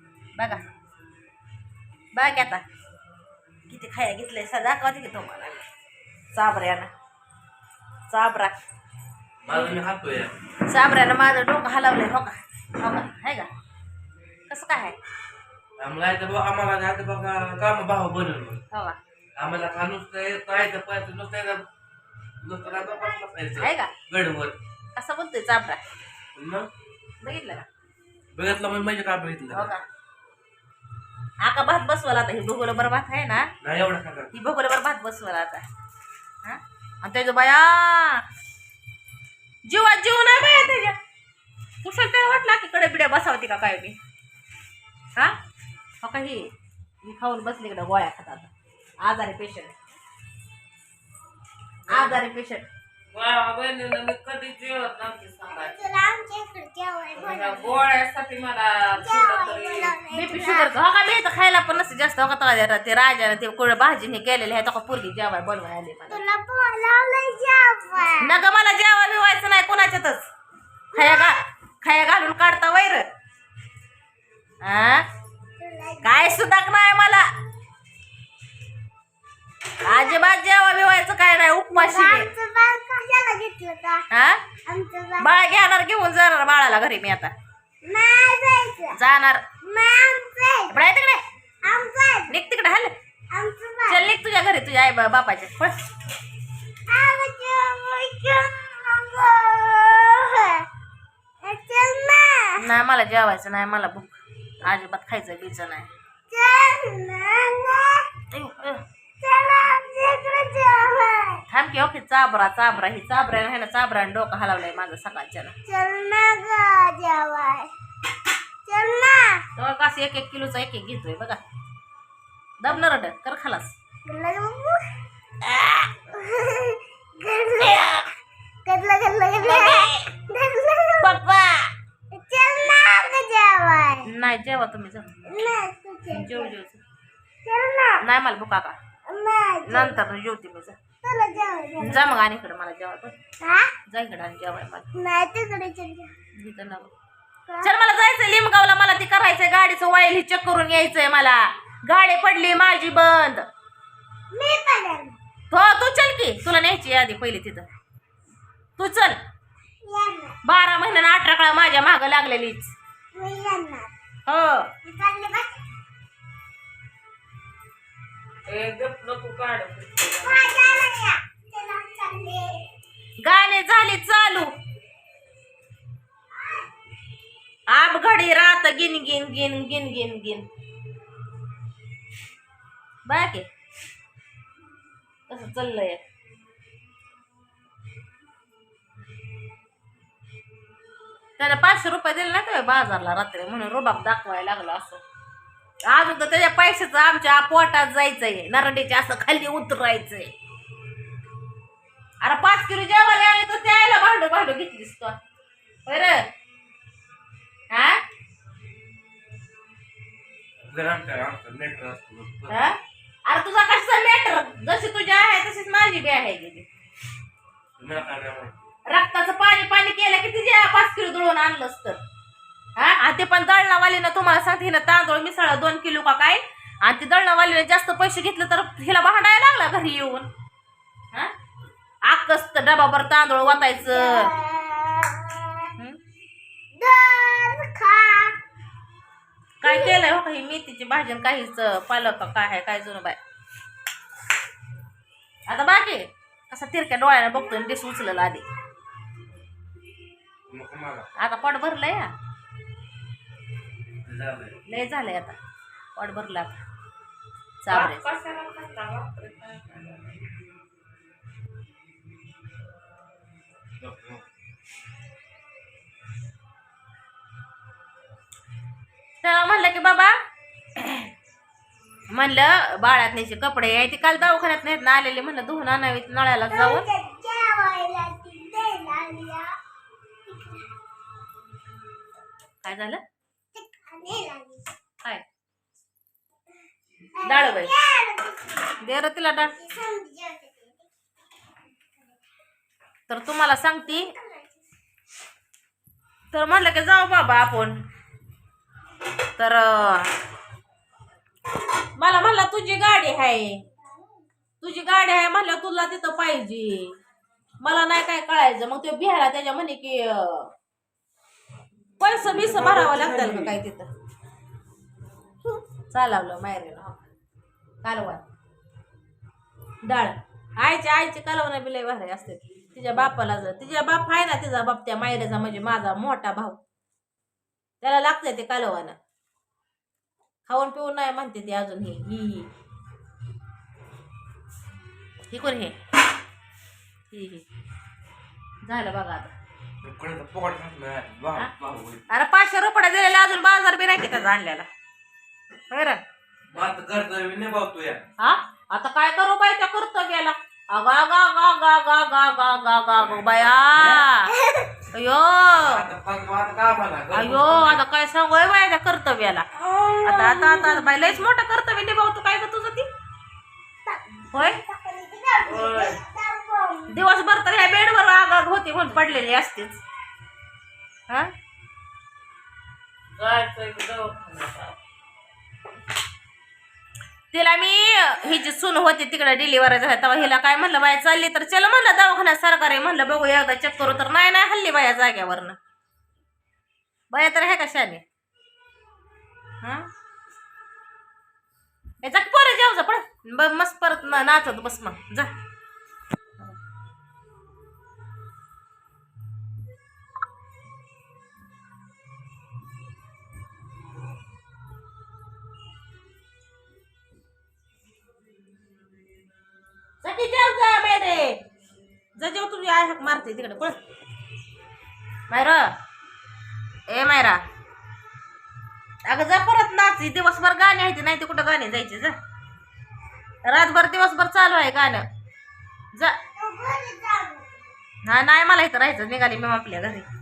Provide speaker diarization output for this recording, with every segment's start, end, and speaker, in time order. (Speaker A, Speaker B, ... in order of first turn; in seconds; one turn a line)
Speaker A: 0.4-0.6
Speaker A: 2.1-2.6
Speaker A: 3.7-5.7
Speaker A: 6.3-6.9
Speaker A: 8.1-8.6
Speaker B: 9.4-10.4
Speaker A: 10.7-13.5
Speaker A: 14.5-15.0
Speaker B: 15.8-18.6
Speaker A: 18.7-19.0
Speaker B: 19.4-21.7
Speaker B: 22.4-24.6
Speaker A: 23.6-23.9
Speaker A: 25.0-25.8
Speaker B: 26.4-26.7
Speaker A: 27.2-27.7
Speaker B: 28.3-29.7
Speaker A: 29.5-29.8
Speaker A: 31.4-33.5
Speaker B: 33.6-34.3
Speaker A: 34.3-35.6
Speaker A: 36.4-38.2
Speaker A: 39.7-41.0
Speaker A: 41.8-44.0
Speaker A: 46.0-46.5
Speaker A: 47.0-48.5
Speaker A: 49.0-49.7
Speaker C: 51.9-52.2
Speaker A: 51.9-52.7
Speaker C: 53.1-55.8
Speaker D: 55.5-57.8
Speaker C: 57.1-60.0
Speaker D: 59.0-60.8
Speaker A: 60.1-66.2
Speaker D: 66.1-68.4
Speaker A: 68.2-70.3
Speaker D: 70.9-71.4
Speaker A: 70.9-73.1
Speaker A: 74.6-75.0
Speaker D: 75.6-76.5
Speaker A: 76.0-77.3
Speaker A: 79.8-82.3
Speaker D: 79.9-80.2
Speaker D: 81.7-84.1
Speaker A: 84.1-84.4
Speaker D: 84.7-85.3
Speaker A: 85.2-87.3
Speaker D: 87.8-89.0
Speaker A: 88.9-89.4
Speaker D: 89.6-90.8
Speaker A: 90.7-91.2
Speaker D: 91.6-92.4
Speaker A: 92.3-92.9
Speaker D: 93.3-94.1
Speaker A: 93.9-95.9
Speaker D: 96.9-100.7
Speaker D: 101.4-102.6
Speaker A: 102.6-105.9
Speaker D: 106.3-108.1
Speaker A: 108.3-108.8
Speaker D: 109.2-111.4
Speaker A: 111.5-115.5
Speaker D: 115.7-117.7
Speaker D: 118.7-119.5
Speaker A: 119.6-121.4
Speaker A: 122.6-123.8
Speaker D: 124.0-124.8
Speaker A: 125.4-125.9
Speaker D: 126.0-128.0
Speaker A: 127.6-128.0
Speaker D: 128.7-131.3
Speaker A: 129.4-130.1
Speaker A: 131.0-131.7
Speaker D: 132.1-134.1
Speaker A: 134.1-135.2
Speaker D: 135.3-136.5
Speaker A: 136.1-136.8
Speaker D: 137.4-138.0
Speaker A: 138.0-138.8
Speaker D: 139.1-140.0
Speaker A: 139.7-140.8
Speaker D: 141.0-142.1
Speaker A: 141.8-143.2
Speaker D: 143.4-143.7
Speaker A: 143.9-144.9
Speaker D: 144.9-146.1
Speaker A: 146.4-146.9
Speaker D: 147.5-147.7
Speaker A: 147.6-153.4
Speaker D: 154.3-155.2
Speaker A: 155.5-157.7
Speaker A: 158.8-159.2
Speaker D: 159.8-160.4
Speaker A: 160.4-162.7
Speaker D: 163.1-163.9
Speaker A: 164.3-164.7
Speaker D: 164.8-165.7
Speaker C: 168.5-170.9
Speaker D: 170.2-172.6
Speaker A: 173.2-174.5
Speaker D: 176.3-176.7
Speaker A: 177.7-180.5
Speaker A: 183.1-183.5
Speaker A: 185.3-186.0
Speaker A: 191.4-195.0
Speaker A: 195.9-200.3
Speaker A: 202.2-205.2
Speaker A: 205.9-206.3
Speaker A: 207.7-208.0
Speaker B: 210.7-212.6
Speaker A: 212.5-216.7
Speaker B: 217.8-218.6
Speaker A: 218.9-222.0
Speaker A: 222.8-230.3
Speaker A: 232.1-234.3
Speaker D: 233.9-235.7
Speaker D: 236.7-238.4
Speaker A: 239.6-243.2
Speaker D: 239.6-240.0
Speaker A: 245.5-248.5
Speaker B: 250.5-251.1
Speaker A: 251.2-252.1
Speaker B: 254.0-254.6
Speaker A: 254.7-255.4
Speaker A: 255.9-256.6
Speaker A: 257.6-258.0
Speaker C: 257.7-260.3
Speaker B: 263.8-264.2
Speaker A: 269.2-270.1
Speaker A: 270.8-271.0
Speaker A: 272.1-276.9
Speaker D: 276.5-279.5
Speaker D: 280.3-280.7
Speaker A: 282.6-283.0
Speaker D: 283.5-284.7
Speaker D: 287.2-288.8
Speaker A: 287.2-287.7
Speaker A: 288.8-289.6
Speaker D: 289.4-290.9
Speaker A: 293.1-294.1
Speaker D: 293.9-294.5
Speaker A: 296.3-297.8
Speaker A: 299.4-300.1
Speaker A: 302.0-303.6
Speaker A: 304.6-306.9
Speaker A: 307.6-310.5
Speaker A: 312.0-313.9
Speaker B: 312.4-313.5
Speaker A: 315.4-317.1
Speaker A: 317.8-318.2
Speaker A: 319.8-326.6
Speaker A: 327.8-329.0
Speaker A: 330.5-332.5
Speaker A: 335.3-335.8
Speaker A: 337.1-337.4
Speaker A: 338.6-339.3
Speaker B: 339.8-342.0
Speaker A: 342.1-344.7
Speaker A: 345.7-346.0
Speaker B: 346.5-348.0
Speaker A: 348.2-354.3
Speaker B: 353.8-354.1
Speaker D: 354.3-354.8
Speaker A: 354.9-355.9
Speaker B: 355.6-357.8
Speaker A: 357.1-359.5
Speaker D: 359.6-361.1
Speaker A: 360.0-362.9
Speaker D: 363.9-367.0
Speaker A: 364.3-364.6
Speaker C: 365.4-366.0
Speaker A: 366.9-369.8
Speaker C: 373.2-374.8
Speaker A: 377.3-385.6
Speaker A: 387.1-388.0
Speaker A: 389.6-389.9
Speaker A: 392.0-395.4
Speaker A: 410.0-411.4
Speaker A: 412.2-413.8
Speaker A: 415.3-415.7
Speaker A: 416.9-417.4
Speaker A: 419.1-422.2
Speaker A: 423.4-425.1
Speaker D: 426.4-427.5
Speaker A: 428.1-430.1